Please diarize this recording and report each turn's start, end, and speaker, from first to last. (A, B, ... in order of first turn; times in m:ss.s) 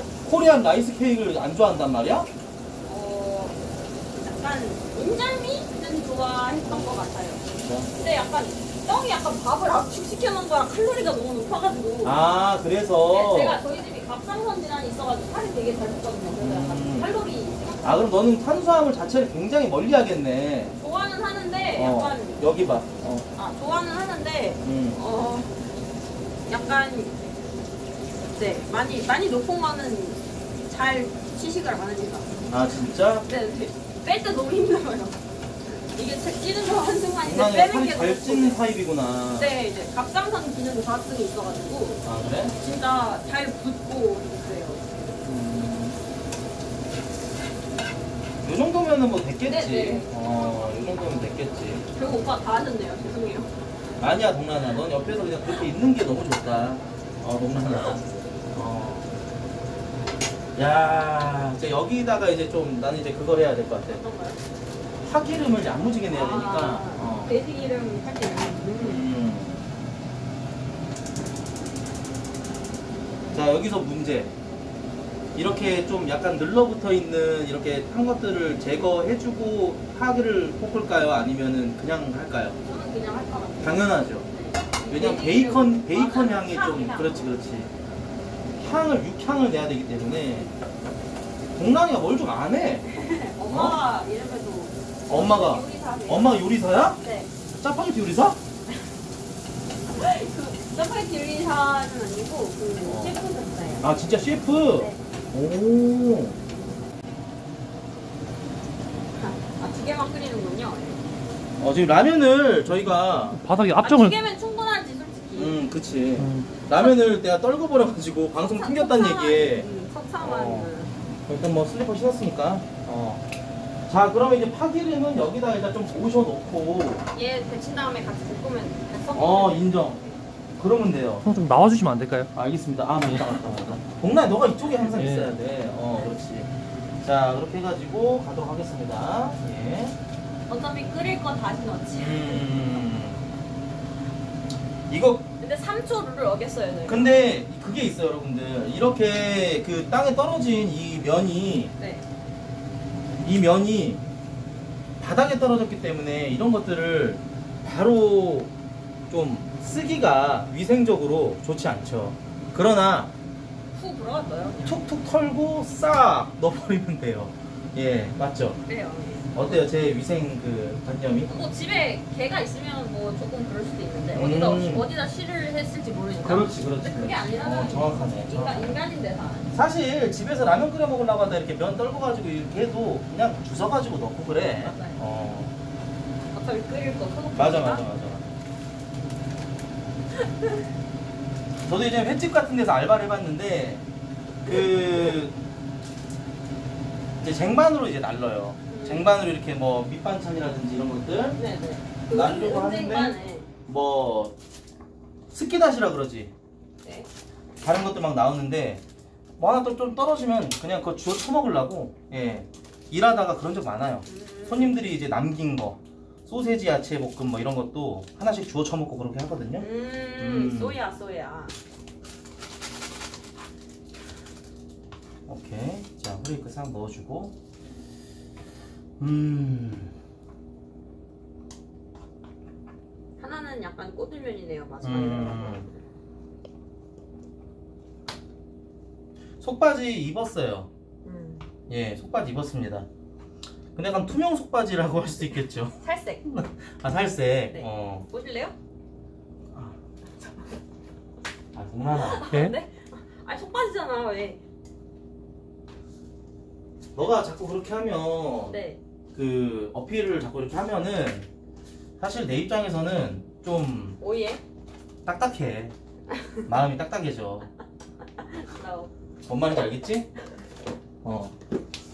0:00.2-0:02.3 A
0:02.8-0:03.6 B
0:04.2-0:12.2 B
0:07.6-0:07.9 A
0:12.0-0:13.6 A
0:13.1-0:18.1 B
0:16.4-0:17.1 A
0:17.8-0:20.8 A
0:20.8-0:22.5 B
0:21.7-0:23.3 A
0:23.3-0:25.6 B
0:24.6-0:25.0 A
0:26.5-0:27.2 B
0:28.3-0:32.5 B
0:32.5-0:33.2 A
0:33.2-0:35.2 B
0:35.9-0:38.6 B
0:37.2-0:39.5 A
0:39.4-0:45.1 B
0:42.0-0:42.5 A
0:45.2-0:46.0 A
0:48.4-0:52.1 A
0:49.5-0:51.3 B
0:51.9-0:53.5 B
0:54.0-0:58.0 A
0:58.5-0:59.1 A
1:00.6-1:04.0 A
1:03.9-1:04.4 B
1:05.0-1:07.3 A
1:06.1-1:09.0 B
1:08.8-1:09.6 A
1:13.3-1:14.3 A
1:15.3-1:22.6 A
1:22.6-1:27.4 B
1:23.6-1:24.3 A
1:24.9-1:27.7 A
1:28.6-1:30.5 A
1:31.6-1:32.8 A
1:32.9-1:36.4 B
1:33.5-1:33.8 A
1:35.1-1:37.0 A
1:37.0-1:37.3 B
1:37.5-1:38.4 A
1:39.9-1:44.0 B
1:42.8-1:43.2 A
1:43.8-1:46.4 A
1:44.7-1:45.0 B
1:49.2-1:51.0 B
1:51.6-1:53.4 A
1:53.3-1:54.1 C
1:53.8-1:55.7 B
1:55.4-1:59.7 A
1:56.2-1:56.5 C
1:58.4-2:00.9 B
2:00.2-2:00.7 A
2:01.3-2:03.2 A
2:03.9-2:07.0 A
2:07.1-2:10.2 B
2:09.1-2:10.0 A
2:10.6-2:11.3 A
2:11.2-2:12.3 C
2:12.3-2:20.0 A
2:14.9-2:15.3 C
2:20.5-2:22.5 B
2:22.0-2:23.2 A
2:24.9-2:25.3 A
2:25.4-2:27.3 B
2:26.8-2:31.7 A
2:31.8-2:32.0 B
2:33.2-2:34.0 A
2:35.0-2:38.5 A
2:39.1-2:43.1 A
2:43.7-2:44.7 B
2:44.6-2:48.6 A
2:48.6-2:49.6 B
2:49.3-2:51.3 A
2:51.3-2:59.5 B
2:54.1-2:54.9 A
2:56.2-2:58.7 A
2:59.5-3:05.5 A
3:04.6-3:05.0 B
3:06.3-3:07.8 B
3:07.3-3:08.3 A
3:11.6-3:13.8 A
3:14.4-3:15.4 A
3:14.4-3:15.2 B
3:17.2-3:21.4 A
3:18.7-3:19.2 B
3:21.4-3:23.5 B
3:22.1-3:24.3 A
3:25.3-3:26.3 A
3:27.6-3:28.8 A
3:29.4-3:39.6 A
3:34.1-3:34.8 B
3:39.6-3:41.5 B
3:40.2-3:40.8 A
3:45.3-3:47.3 A
3:49.0-3:49.9 A
3:53.2-3:55.8 B
3:54.8-3:55.7 A
3:59.4-4:00.7 A
4:01.0-4:01.4 B
4:01.7-4:02.9 A
4:03.7-4:08.0 A
4:05.8-4:06.2 B
4:07.5-4:08.5 B
4:11.5-4:12.4 A
4:12.0-4:14.4 B
4:16.9-4:18.6 A
4:18.5-4:18.8 B
4:19.1-4:21.3 A
4:22.0-4:24.0 A
4:24.0-4:24.4 B
4:25.0-4:25.7 A
4:26.4-4:27.5 A
4:28.3-4:28.9 B
4:29.2-4:30.1 A
4:31.0-4:31.3 A